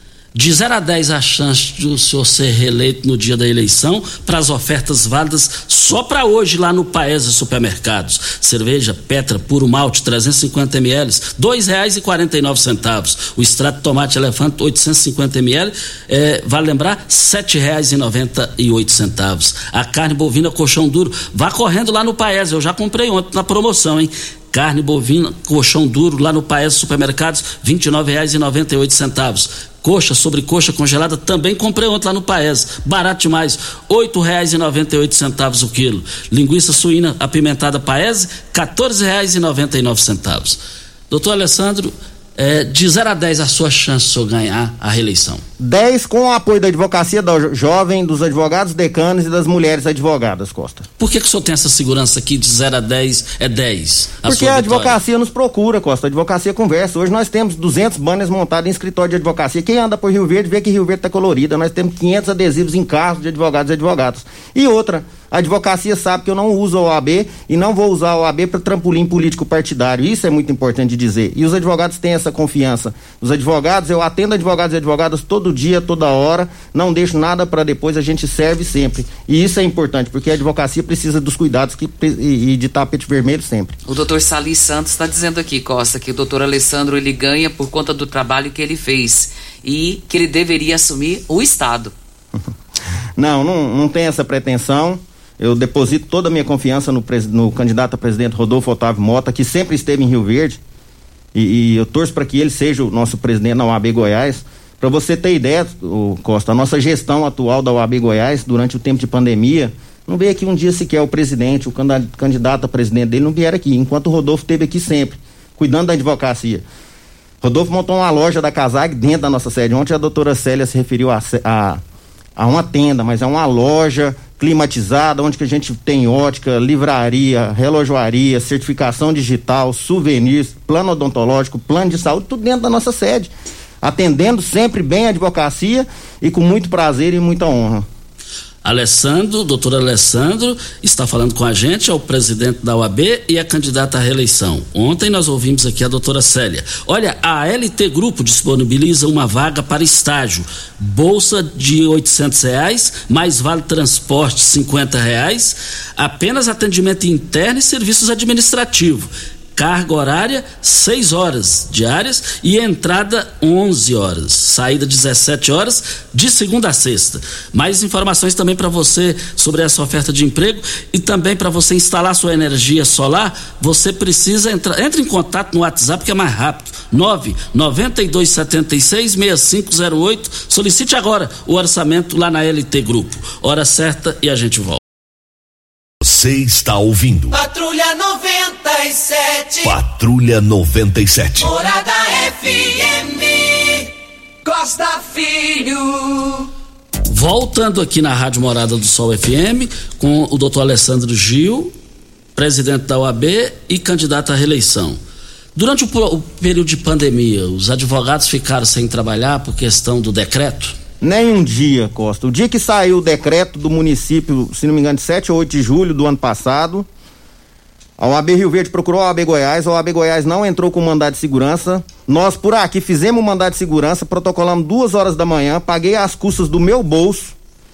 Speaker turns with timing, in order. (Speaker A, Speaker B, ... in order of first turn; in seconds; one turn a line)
Speaker A: 0.3-45.4
Speaker B: 45.6-50.9
Speaker A: 51.0-55.0
Speaker B: 54.2-83.7
Speaker C: 83.9-91.9
Speaker B: 93.2-100.6
Speaker B: 101.3-116.6
Speaker B: 117.4-121.8
Speaker B: 122.4-133.3
Speaker B: 133.8-137.8
Speaker A: 138.6-184.8
Speaker D: 186.0-187.4
Speaker E: 187.3-189.7
Speaker D: 189.6-191.5
Speaker E: 191.4-193.9
Speaker E: 194.4-196.5
Speaker A: 197.1-201.7
Speaker A: 202.4-205.0
Speaker A: 205.6-210.8
Speaker B: 211.0-216.9
Speaker B: 218.0-227.3